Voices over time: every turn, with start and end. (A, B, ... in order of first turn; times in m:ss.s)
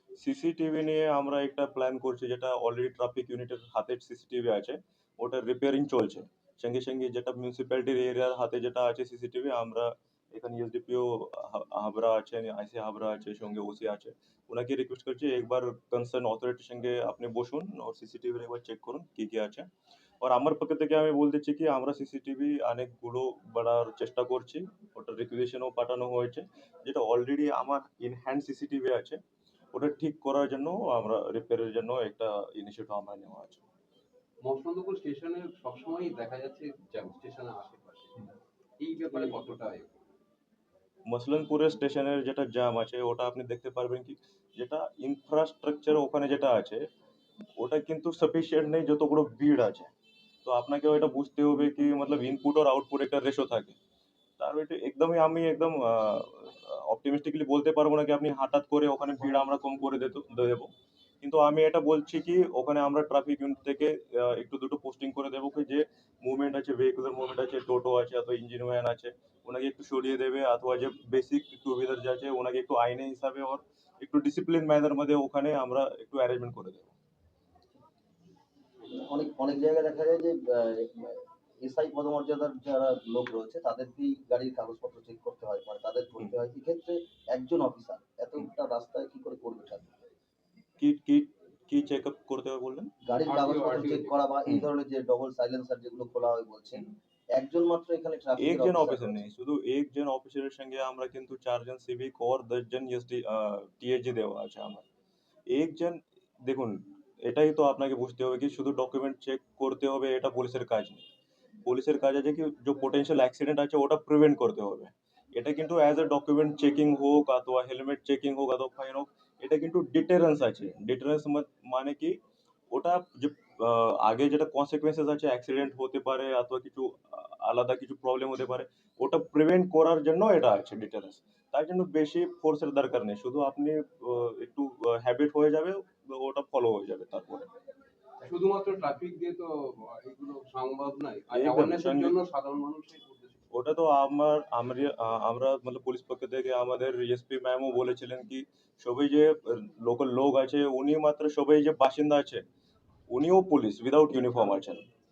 0:00.2-0:19.7 A
0:20.2-0:29.2 A
0:29.7-0:33.6 A
0:34.4-0:38.3 B
0:38.8-0:40.0 B
0:41.1-0:46.8 A
0:47.6-0:49.9 A
0:50.4-0:53.8 A
0:54.4-1:00.7 A
1:01.2-1:16.9 A
1:18.9-1:30.0 C
1:30.8-1:32.9 A
1:33.0-1:39.2 C
1:33.2-1:34.2 B
1:38.4-1:44.8 A
1:45.5-1:51.0 A
1:51.6-2:02.2 A
2:02.7-2:17.5 A
2:18.2-2:23.4 B
2:21.3-2:22.2 A
2:23.5-2:32.4 A
2:33.1-2:34.8 A